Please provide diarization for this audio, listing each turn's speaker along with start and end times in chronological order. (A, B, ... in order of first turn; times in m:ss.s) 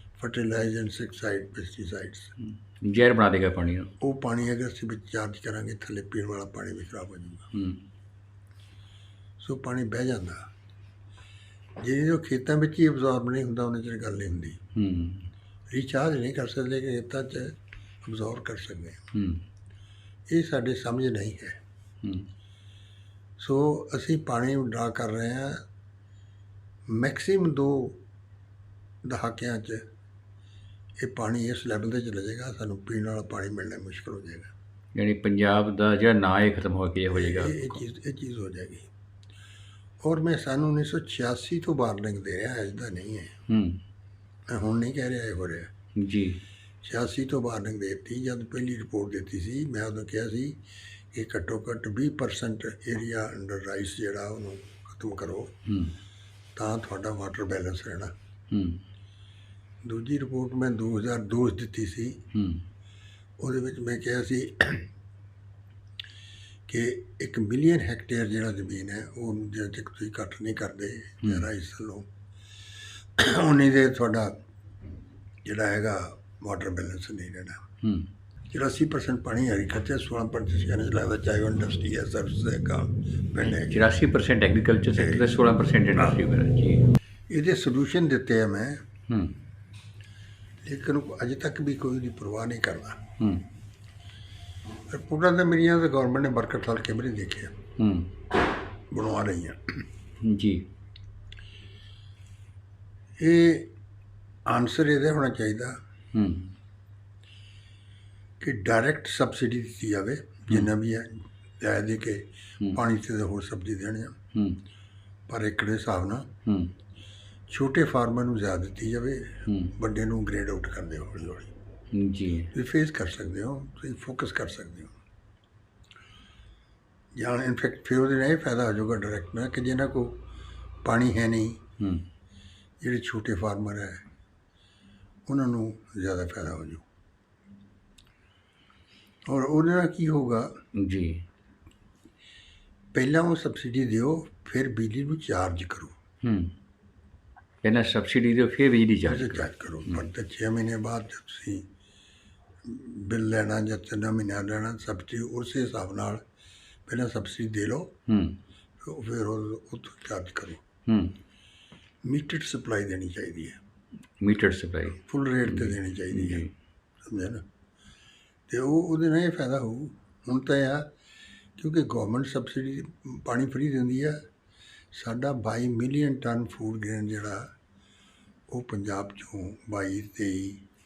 0:00.2-0:02.3 A
0:02.4-0:03.9 B
0:04.0-0:07.5 A
0:07.5-0:07.8 B
0:09.4-0:10.5 A
0:11.8-0:14.6 A
0:14.7-0:15.3 B
0:15.7-0:19.0 A
0:19.1-0:19.4 B
0:20.3-0:21.6 A
0:23.4-0:25.6 A
0:26.9-0:28.0 A
0:29.0-0:29.8 A
0:31.0-0:34.5 A
0:34.9-0:37.8 B
0:37.1-0:38.9 A
0:40.0-0:43.4 A
0:43.5-0:43.8 B
0:44.5-0:45.7 A
0:46.0-0:46.4 B
0:46.8-0:50.6 A
0:51.1-0:55.5 A
0:55.6-0:56.0 B
0:56.6-0:58.1 A
0:58.5-0:58.8 B
0:59.8-1:02.2 A
1:02.3-1:02.6 B
1:03.4-1:04.9 A
1:06.7-1:12.1 A
1:13.2-1:14.3 A
1:15.4-1:17.6 A
1:17.8-1:18.1 B
1:18.5-1:23.9 A
1:23.5-1:26.8 B
1:25.0-1:25.3 A
1:27.3-1:28.8 A
1:29.1-1:29.4 B
1:30.6-1:33.0 A
1:33.2-1:33.5 B
1:34.9-1:37.5 A
1:37.8-1:38.1 B
1:38.9-1:39.8 A
1:40.2-1:40.6 B
1:43.2-1:43.7 A
1:44.5-1:45.8 A
1:46.1-1:46.5 B
1:48.4-1:54.2 A
1:54.3-1:54.6 B
1:55.3-1:56.3 A
1:56.4-1:56.7 B
1:57.5-2:01.5 A
1:59.5-1:59.7 B
2:01.9-2:02.5 B
2:02.5-2:04.9 A
2:07.1-2:10.2 A
2:10.8-2:11.6 A
2:11.8-2:12.0 B
2:12.8-2:14.0 A
2:15.3-2:16.8 A
2:19.3-2:20.6 A
2:20.7-2:21.2 B
2:22.9-2:25.9 A
2:26.2-2:26.5 B
2:27.6-2:30.0 B
2:29.0-2:31.7 A
2:32.6-2:36.2 A
2:36.9-2:37.9 A
2:38.1-2:38.4 B
2:38.8-2:40.6 A
2:40.8-2:41.1 B
2:42.0-2:43.6 A
2:44.2-2:46.5 B
2:45.0-2:46.5 A
2:47.0-2:47.4 A
2:48.5-2:50.9 A
2:51.6-2:54.2 A
2:54.9-2:57.5 A
2:58.5-3:00.6 A